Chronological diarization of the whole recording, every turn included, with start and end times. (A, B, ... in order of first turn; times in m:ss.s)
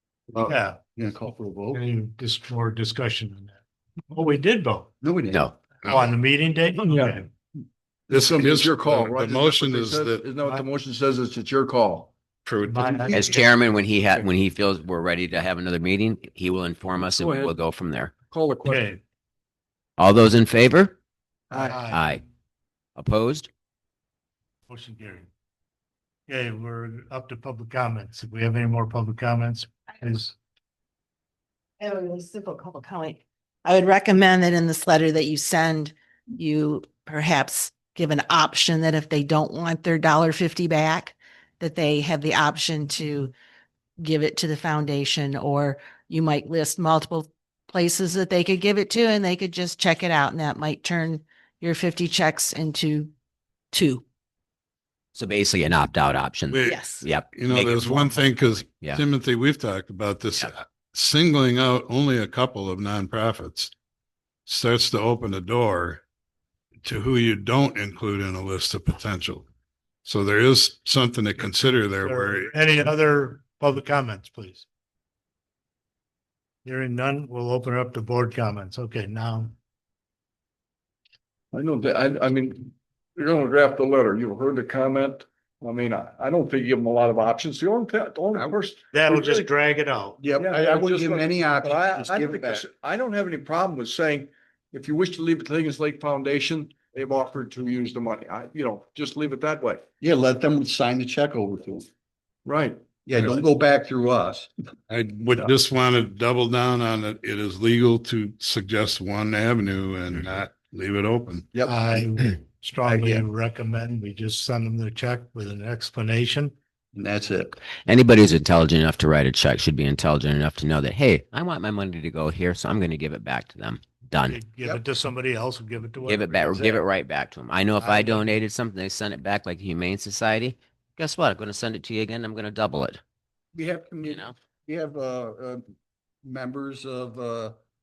0:00.3-0:01.8 A
0:00.5-0:00.8 B
0:01.7-0:04.9 B
0:05.0-0:05.5 A
0:05.9-0:07.3 B
0:06.8-0:07.2 C
0:08.1-0:12.1 C
0:08.1-0:10.3 D
0:12.5-0:13.4 D
0:12.6-0:13.3 B
0:13.1-0:18.1 E
0:17.1-0:17.6 C
0:18.3-0:18.9 C
0:18.7-0:19.0 B
0:20.0-0:21.0 E
0:21.5-0:21.8 C
0:21.5-0:22.0 B
0:21.9-0:22.2 E
0:23.0-0:23.5 E
0:24.7-0:25.3 B
0:26.3-0:30.4 B
0:31.8-0:43.3 F
0:44.0-0:53.1 F
0:53.7-0:54.0 F
0:55.2-0:59.0 E
0:56.5-1:03.7 D
0:56.6-0:57.0 F
1:04.5-1:06.0 D
1:06.8-1:09.5 D
1:10.0-1:12.5 D
1:12.0-1:14.7 B
1:16.6-1:19.5 B
1:21.5-1:29.5 C
1:28.9-1:30.2 B
1:30.2-1:32.7 A
1:30.4-1:39.8 C
1:40.0-1:41.9 A
1:42.4-1:42.8 C
1:43.1-1:44.5 A
1:44.9-1:51.5 D
1:51.5-1:52.1 A
1:51.6-1:56.5 B
1:52.8-1:53.2 A
1:56.9-1:57.6 A
1:57.9-2:04.4 E
2:04.3-2:06.5 B
2:06.0-2:13.0 E
2:06.4-2:06.8 A
2:07.8-2:08.3 B
2:13.5-2:15.6 A
2:14.0-2:14.3 E
2:16.2-2:17.6 A